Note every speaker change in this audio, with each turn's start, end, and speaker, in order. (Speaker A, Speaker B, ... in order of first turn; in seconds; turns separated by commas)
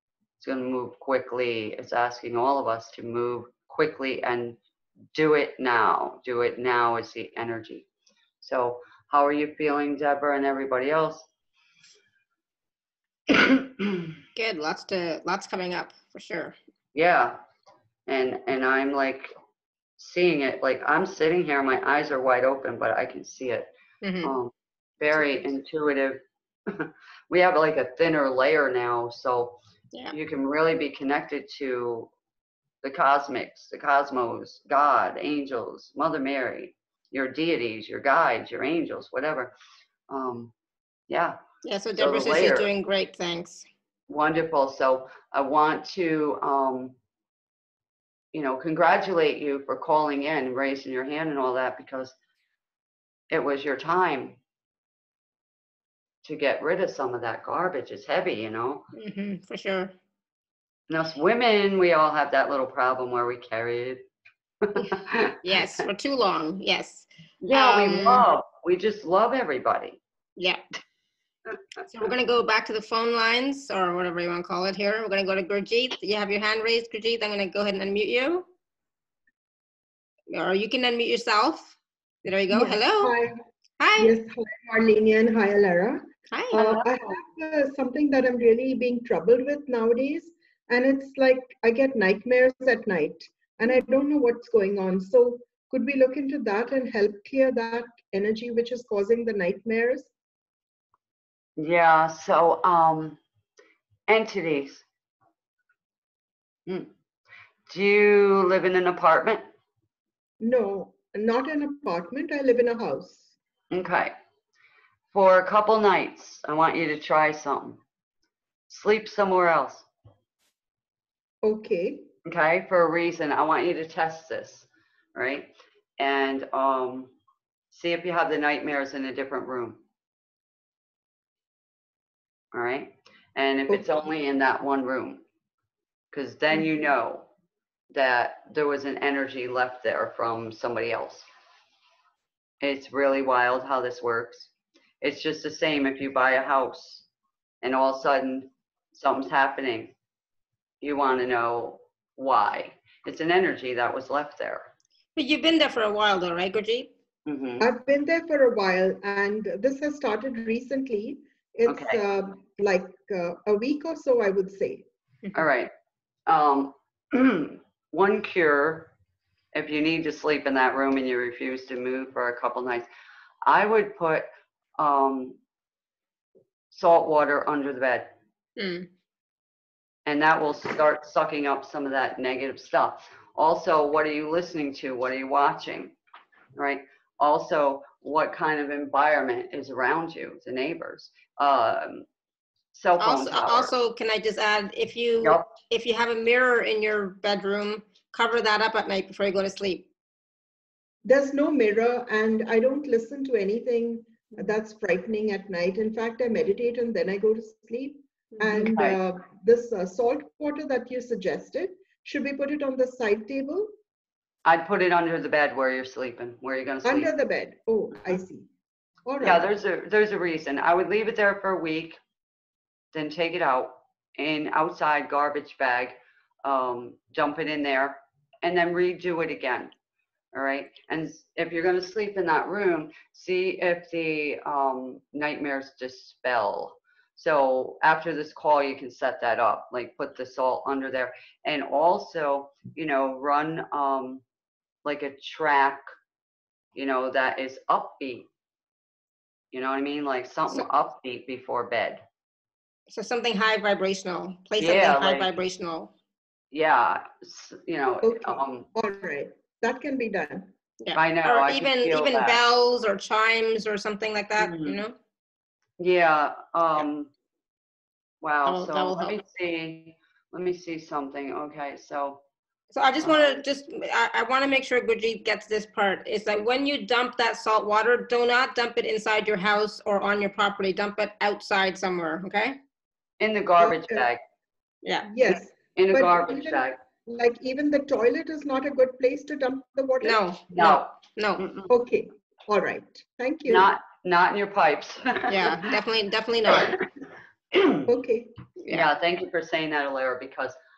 Speaker A: 0.4-4.6, Speaker A: 5.1-7.9, Speaker A: 8.4-11.3, Speaker A: 13.3-14.1, Speaker B: 14.3-16.6, Speaker A: 16.9-17.4, Speaker A: 18.1-19.3, Speaker A: 20.0-23.7, Speaker B: 24.0-24.3, Speaker A: 24.2-29.6, Speaker A: 30.1-32.1, Speaker A: 32.8-39.5, Speaker A: 40.1-40.5, Speaker A: 41.1-41.4, Speaker B: 41.6-43.6, Speaker A: 42.0-42.7, Speaker A: 44.1-47.0, Speaker A: 48.3-52.1, Speaker A: 53.3-54.4, Speaker A: 56.2-58.9, Speaker B: 58.9-59.9, Speaker A: 60.9-64.1, Speaker A: 64.6-65.4, Speaker B: 64.8-68.3, Speaker A: 67.4-70.0, Speaker B: 71.9-78.5, Speaker B: 80.3-83.2, Speaker C: 82.5-83.4, Speaker B: 83.8-84.2, Speaker C: 84.0-100.1, Speaker B: 86.3-86.7, Speaker A: 86.5-86.9, Speaker A: 101.6-103.2, Speaker A: 104.1-104.8, Speaker A: 107.7-109.5, Speaker C: 110.4-113.3, Speaker A: 113.7-114.1, Speaker A: 115.1-117.8, Speaker A: 118.7-119.9, Speaker C: 121.4-122.1, Speaker A: 122.2-127.1, Speaker A: 127.7-129.8, Speaker A: 132.5-135.2, Speaker A: 136.1-137.3, Speaker A: 137.9-141.3, Speaker A: 142.6-147.1, Speaker A: 147.6-149.9, Speaker A: 150.8-154.7, Speaker B: 155.2-156.9, Speaker A: 157.2-157.7, Speaker C: 157.6-164.9, Speaker A: 161.7-162.0, Speaker A: 165.3-165.7, Speaker A: 166.3-168.9, Speaker A: 169.5-172.9, Speaker A: 173.4-175.4, Speaker A: 176.7-178.2, Speaker B: 178.6-178.9, Speaker A: 180.1-185.9, Speaker A: 186.5-192.1, Speaker A: 192.7-193.7, Speaker B: 193.0-199.9, Speaker A: 195.2-195.5, Speaker C: 201.0-213.7, Speaker B: 208.4-208.7, Speaker A: 214.4-217.1, Speaker C: 216.8-218.5, Speaker C: 219.0-219.4, Speaker A: 219.2-222.0, Speaker A: 222.9-229.7, Speaker A: 230.3-244.2, Speaker A: 244.8-245.8, Speaker A: 246.7-248.3, Speaker A: 249.5-252.0, Speaker B: 252.9-255.9, Speaker A: 254.6-255.3, Speaker A: 256.5-258.7, Speaker C: 258.0-260.5, Speaker B: 260.8-264.9, Speaker A: 260.9-262.5, Speaker A: 264.4-264.8, Speaker A: 265.8-267.1, Speaker A: 268.2-272.2, Speaker B: 268.4-269.2, Speaker B: 272.7-282.6, Speaker A: 273.0-273.4, Speaker A: 283.2-284.2, Speaker C: 283.6-284.0, Speaker B: 284.8-285.1, Speaker C: 285.0-290.3, Speaker A: 285.8-286.8, Speaker B: 290.0-291.4, Speaker A: 290.5-291.7, Speaker C: 291.7-293.7, Speaker A: 293.5-295.6, Speaker B: 295.3-296.7, Speaker A: 296.5-296.7, Speaker A: 297.5-297.9, Speaker C: 297.9-298.4, Speaker B: 298.6-298.9, Speaker A: 298.7-300.6